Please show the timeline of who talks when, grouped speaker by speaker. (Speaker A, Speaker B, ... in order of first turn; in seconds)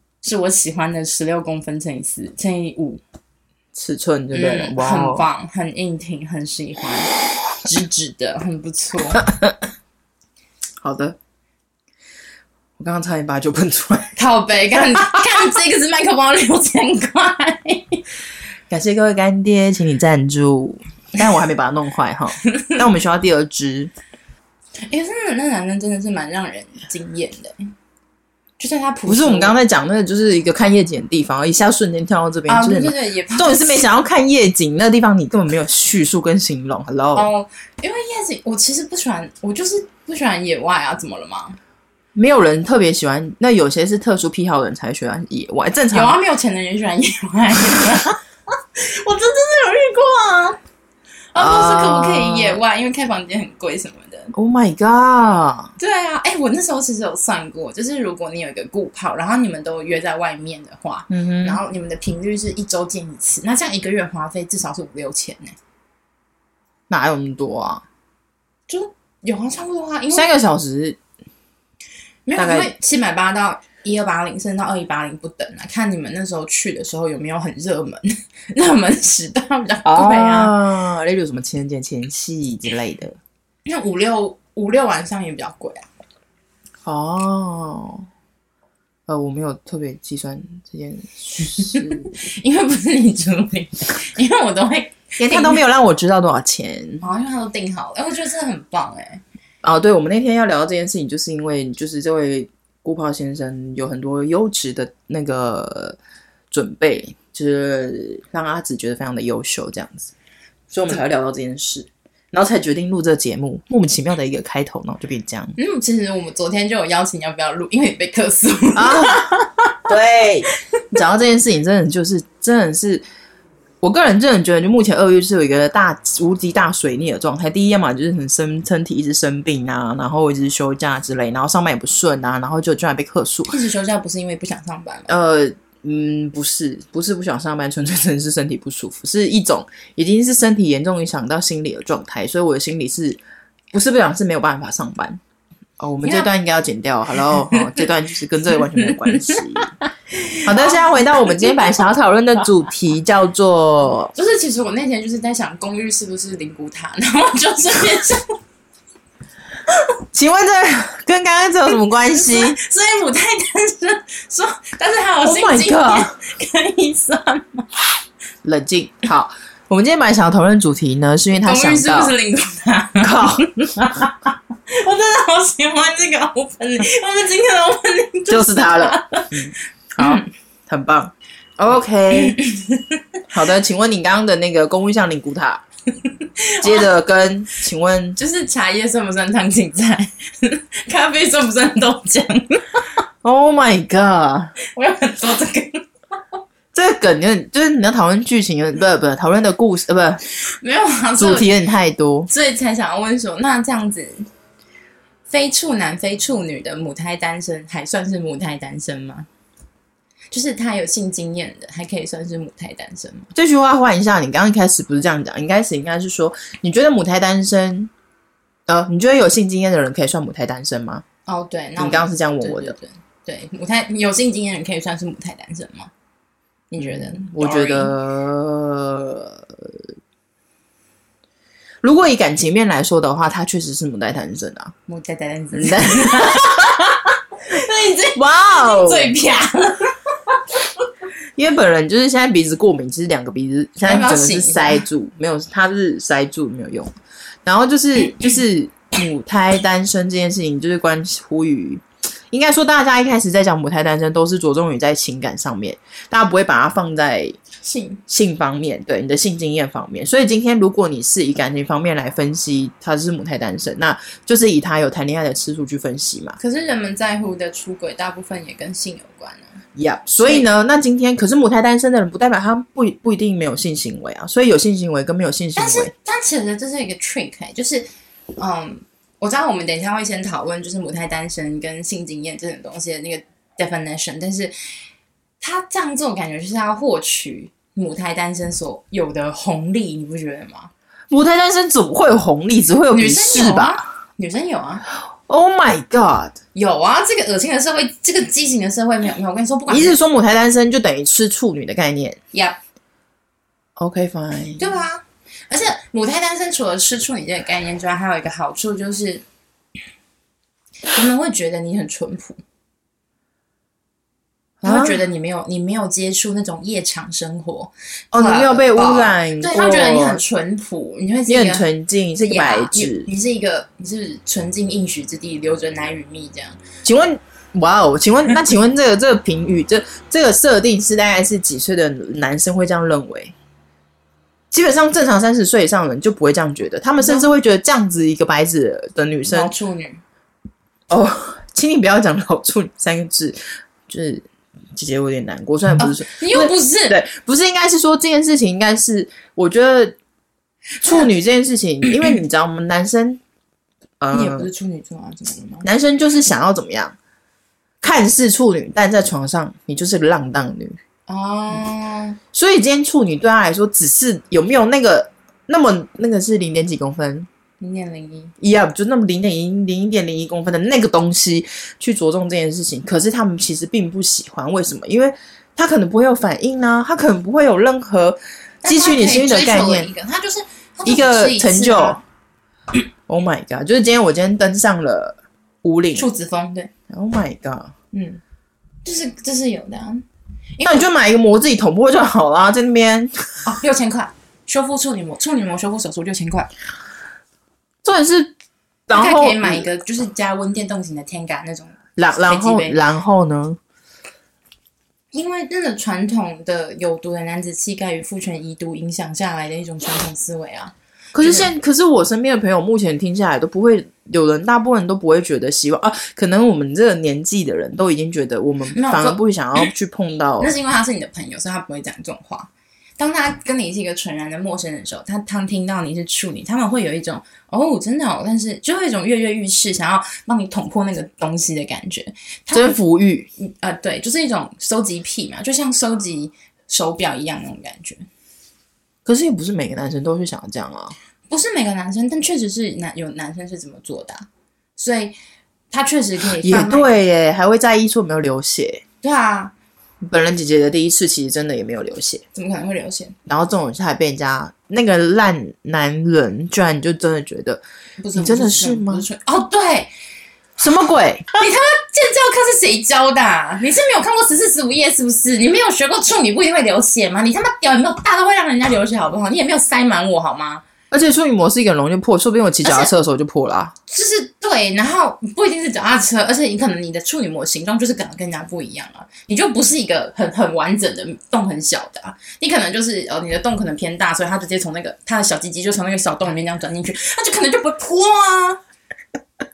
Speaker A: 0.2-3.0, 4.3-9.3, 14.2-18.0, 24.9-27.7, 28.6-29.6, 32.5-33.9, 37.1-41.6, 45.9-50.6, 51.3-54.3, 55.8-65.6, 68.7-70.3, 72.3-80.5, 83.7-85.9, 91.5-95.6, 97.0-99.2, 115.6-119.8, 133.5-135.1, 146.0-146.3, 147.3-147.7, 148.8-151.7, 154.2-158.4, 162.1-167.7, 171.4-179.4, 180.0-180.3, 182.1-183.0, 186.0-186.9, 188.2-192.9, 194.7-195.9, 200.5-201.5, 202.3-204.3, 205.3-209.3, 210.3-213.3, 221.3-225.9, 226.7-227.9, 234.9-240.4, 243.8-244.9, 257.6-258.0, 266.4-269.6, 270.2-270.5, 275.6-284.5, 285.4-290.7, 292.9-294.8, 296.6-300.0, 304.6-309.2, 310.9-312.4, 314.6-321.7, 322.2-326.6, 337.0-337.3, 339.3-340.0, 345.8-347.0, 354.1-355.7, 361.1-362.2, 367.6-368.3, 378.6-382.0, 385.9-386.7, 387.9-388.2, 388.9-390.0, 393.4-396.5, 398.9-402.8, 405.1-411.5, 418.7-419.2, 420.4-432.8, 433.4-438.1, 441.3-444.2, 444.8-445.1, 445.7-446.9, 449.0-449.5, 452.3-453.2, 458.0-459.9, 461.3-470.6, 472.6-472.9, 473.9-488.6
Speaker B: 3.7-5.2, 9.2-9.5, 10.8-11.2, 12.8-14.2, 18.7-23.9, 29.1-37.3, 42.1-46.2, 51.4-52.6, 54.3-55.7, 61.1-61.6, 66.9-67.8, 70.1-71.0, 72.4-72.7, 79.9-83.2, 86.8-88.1, 89.1-92.1, 95.2-97.0, 99.6-106.0, 106.5-110.1, 110.7-115.5, 118.8-123.0, 123.8-133.6, 135.1-143.2, 143.7-145.2, 145.8-149.7, 150.4-154.1, 160.1-162.6, 165.2-166.1, 168.4-172.2, 173.0-173.5, 178.3-182.4, 183.3-185.6, 186.6-188.2, 193.2-194.6, 196.7-200.2, 201.2-202.3, 213.3-217.9, 218.7-221.0, 221.8-222.8, 226.8-229.6, 231.8-234.8, 235.6-236.9, 238.2-239.1, 241.4-246.9, 247.5-257.4, 258.1-266.4, 269.8-275.9, 291.1-293.8, 295.3-296.4, 299.7-302.2, 303.8-304.7, 314.6-315.0, 318.1-320.2, 321.3-323.1, 326.8-333.4, 334.5-339.5, 340.9-350.0, 350.8-353.2, 354.0-354.5, 355.6-357.0, 357.8-360.8, 362.3-367.3, 368.4-379.9, 380.9-382.0, 383.1-386.1, 386.9-387.7, 390.6-393.4, 397.8-398.3, 398.9-399.7, 402.0-403.6, 411.1-420.5, 432.5-433.3, 439.1-440.9, 446.2-448.8, 450.0-452.2, 453.3-457.6, 458.1-459.1, 460.6-461.3, 470.9-473.7